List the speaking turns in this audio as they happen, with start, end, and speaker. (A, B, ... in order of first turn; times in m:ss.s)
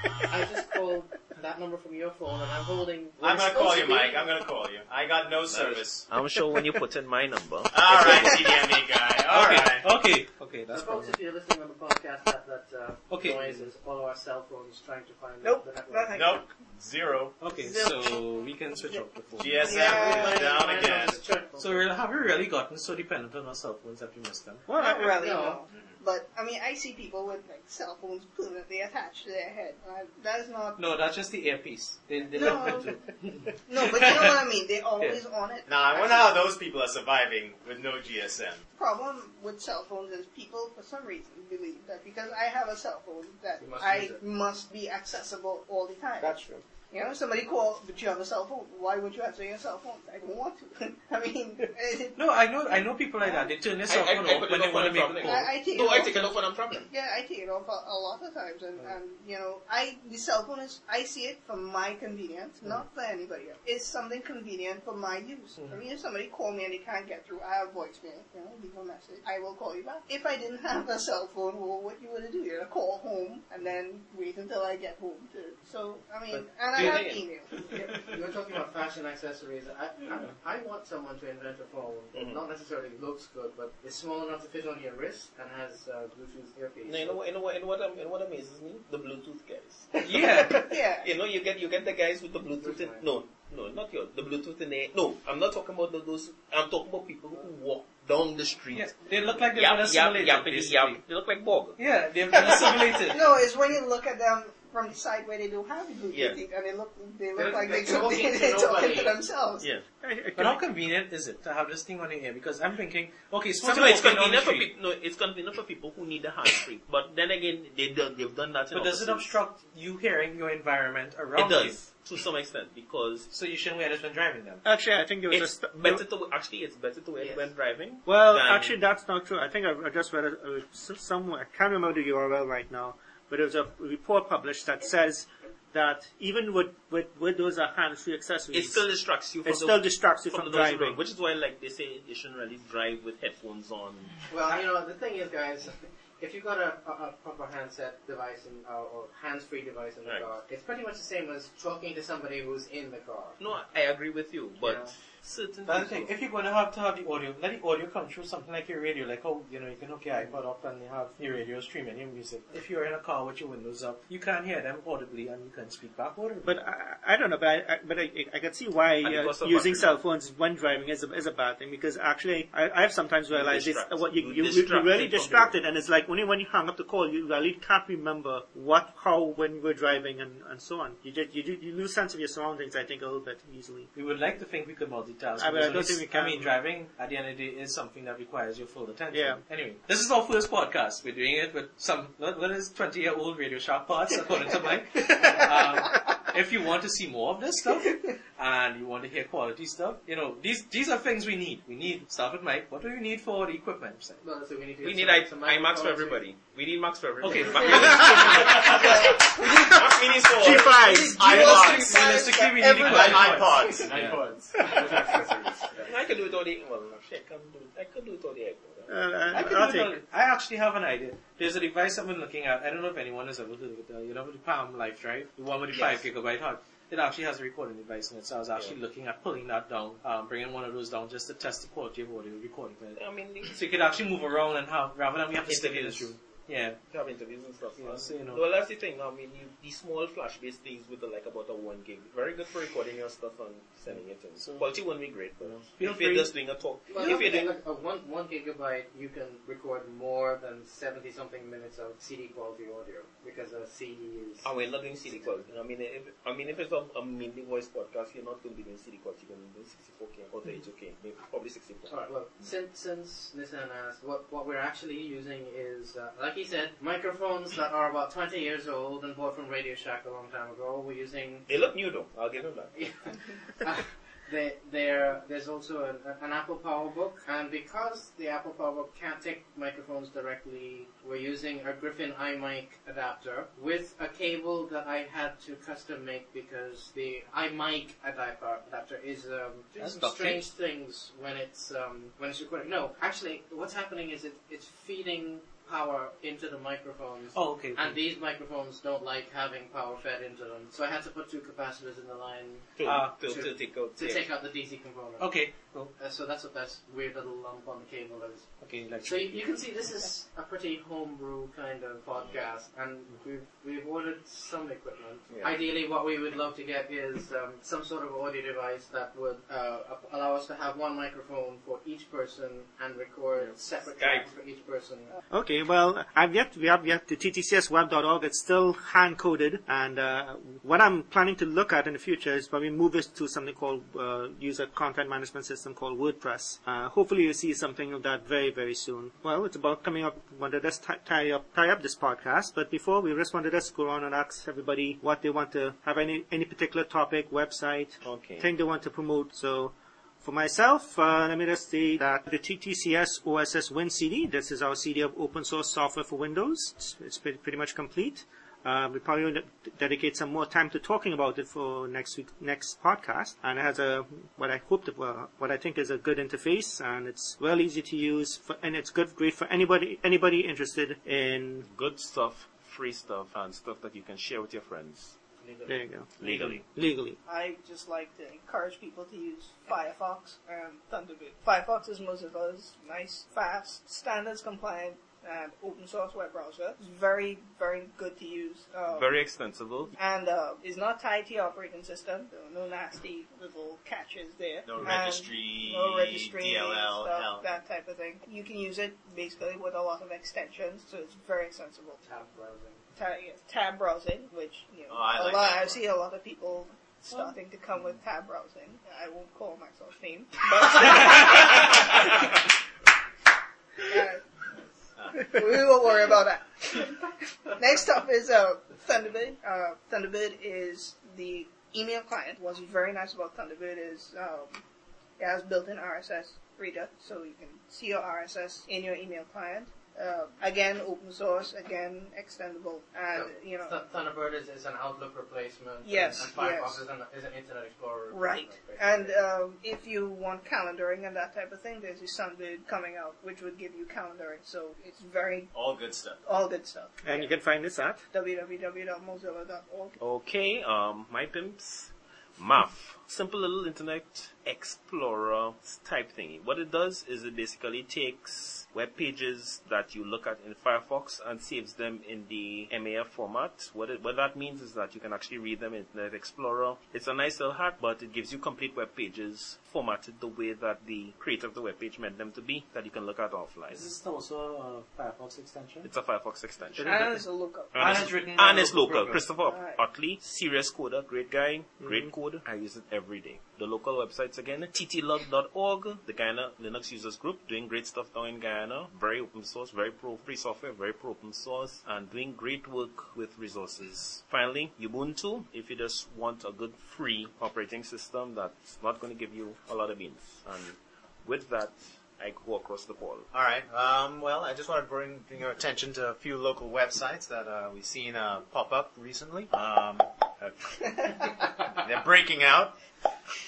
0:00.3-0:04.0 A
0:03.2-0:06.1 B
0:03.5-0:04.2 C
0:05.5-0:08.8 D
0:07.7-0:09.9 B
0:09.3-0:11.2 E
0:10.7-0:16.4 A
0:13.1-0:13.7 E
0:15.4-0:16.4 C
0:16.2-0:17.4 B
0:17.4-0:19.8 E
0:17.6-0:18.2 C
0:19.4-0:21.2 B
0:19.6-0:20.7 C
0:19.7-0:21.9 A
0:21.6-0:24.6 E
0:24.7-0:25.2 F
0:24.8-0:30.8 C
0:24.9-0:25.6 A
0:30.8-0:34.4 E
0:32.3-0:33.0 C
0:33.7-0:36.4 C
0:35.7-0:38.6 B
0:38.8-0:52.2 C
0:43.6-0:44.2 A
0:46.2-0:46.7 F
0:52.2-0:55.5 E
0:53.2-0:53.5 C
0:53.9-0:56.9 D
0:55.2-0:56.4 C
0:56.9-1:17.6 C
1:16.3-1:27.2 A
1:16.7-1:17.2 D
1:22.1-1:22.4 D
1:26.9-1:39.0 D
1:30.0-1:30.6 E
1:30.5-1:31.1 C
1:32.6-1:33.3 A
1:38.7-1:41.0 E
1:39.5-1:41.8 D
1:41.8-1:43.3 E
1:42.5-1:49.7 C
1:46.1-1:46.4 D
1:47.4-1:49.2 A
1:50.0-1:50.6 F
1:50.4-1:54.7 E
1:53.6-1:59.4 D
1:58.7-2:01.8 E
2:01.4-2:03.3 D
2:03.3-2:04.6 E
2:04.6-2:06.0 F
2:05.3-2:08.8 D
2:07.2-2:07.5 A
2:08.1-2:18.8 F
2:18.5-2:24.2 D
2:19.4-2:21.0 F
2:24.3-2:33.4 A
2:30.0-2:30.3 D
2:33.4-2:36.2 D
2:34.6-2:34.9 A
2:35.7-2:46.5 E
2:46.4-3:03.9 F
2:49.0-2:50.0 D
2:53.3-2:55.5 D
3:04.0-3:24.2 E
3:05.4-3:06.6 F
3:09.1-3:09.4 F
3:24.2-3:26.2 A
3:24.8-3:32.0 D
3:27.2-3:28.7 E
3:27.3-3:28.8 A
3:28.7-3:29.3 C
3:30.3-3:31.3 F
3:30.9-3:34.2 E
3:30.9-3:35.8 B
3:31.6-3:34.0 A
3:34.6-3:35.2 A
3:35.8-3:39.0 D
3:38.9-3:40.0 F
3:39.3-3:56.8 E
3:53.0-3:53.7 D
3:55.5-3:56.2 D
3:56.9-4:07.6 D
3:57.8-3:58.4 E
4:03.9-4:04.8 E
4:05.4-4:06.3 E
4:06.9-4:15.5 A
4:14.4-4:22.2 D
4:21.9-4:31.5 A
4:31.5-4:33.1 D
4:32.8-5:05.4 A
4:49.8-4:50.4 E
4:57.3-4:58.0 E
5:02.8-5:04.3 D
5:02.8-5:03.2 E
5:05.2-5:05.9 E
5:06.0-5:25.1 A
5:08.6-5:09.5 E
5:15.3-5:15.6 D
5:23.4-5:24.3 D
5:25.3-6:11.7 F
5:48.0-5:48.5 D
6:11.7-6:15.2 D
6:15.4-6:15.8 A
6:15.7-6:17.2 F
6:16.2-6:16.6 D
6:17.3-6:29.2 C
6:28.9-6:29.9 D
6:29.9-6:42.0 C
6:34.6-6:37.5 B
6:42.0-6:42.8 A
6:43.0-6:52.4 C
6:44.9-6:45.8 B
6:53.8-6:54.2 C
6:55.0-6:55.3 B
6:55.1-7:04.6 C
7:05.2-7:13.8 C
7:13.1-7:19.2 A
7:15.8-7:16.8 C
7:18.1-7:25.5 C
7:25.5-7:26.2 B
7:26.2-7:27.3 C
7:27.0-7:28.0 F
7:28.1-7:30.0 C
7:30.0-7:53.9 D
7:53.7-7:55.9 E
7:55.8-7:57.1 D
7:56.8-7:58.0 C
7:56.9-7:57.2 E
7:57.7-8:23.3 D
7:57.8-7:59.2 E
7:59.4-7:59.8 C
8:23.3-8:32.8 B